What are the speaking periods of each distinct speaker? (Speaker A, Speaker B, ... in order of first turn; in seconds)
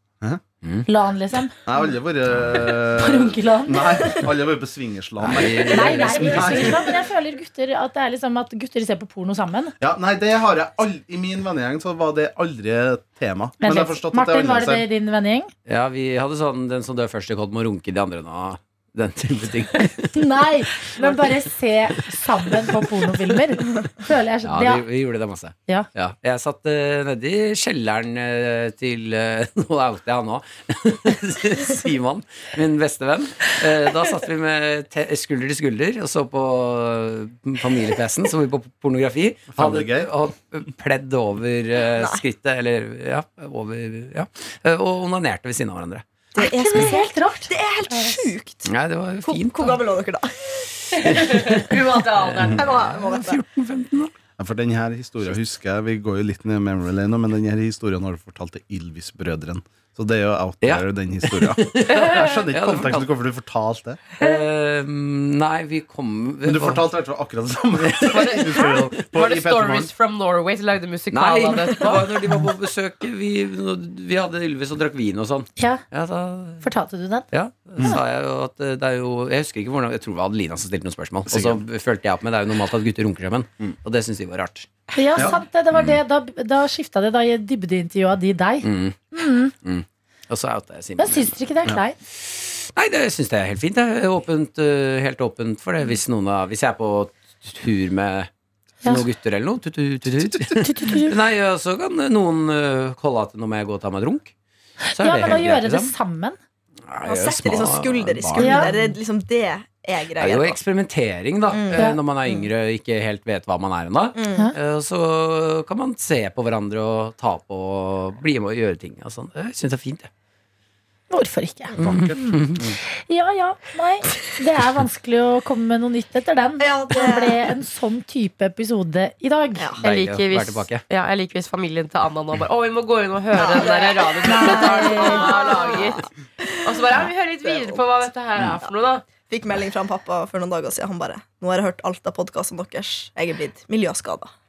Speaker A: 0.9-1.5, 2.9-4.2, 5.7-9.7, 13.6-15.5, 20.1-24.8, 46.4-48.2, 76.6-77.3, 85.0-89.5, 91.0-92.0, 100.6-101.2, 104.9-106.4, 108.4-108.9, 121.1-122.4, 122.9-129.7, 134.2-135.3
Speaker B: 1.7-6.9, 9.8-14.9, 39.5-40.1, 54.4-64.2, 66.5-69.9, 81.3-81.6, 100.2-100.6, 121.8-122.2
Speaker C: 5.2-6.8, 15.7-20.2, 24.4-46.0, 48.6-49.9, 51.0-54.1, 60.6-63.1, 64.2-66.8, 67.8-69.1, 71.1-76.7, 77.3-85.3, 88.6-89.0, 89.5-91.4, 92.1-98.3, 98.8-104.3, 105.0-105.9, 106.9-108.8, 110.2-120.1, 121.8-122.8, 129.8-130.8
Speaker D: 42.0-42.2, 46.3-48.7, 49.2-51.5, 52.5-53.4, 107.0-110.6, 111.5-112.5, 114.2-114.5, 126.6-127.5, 133.3-137.9, 139.3-144.3
Speaker E: 51.1-52.6, 68.1-72.1, 129.8-136.1, 136.6-139.1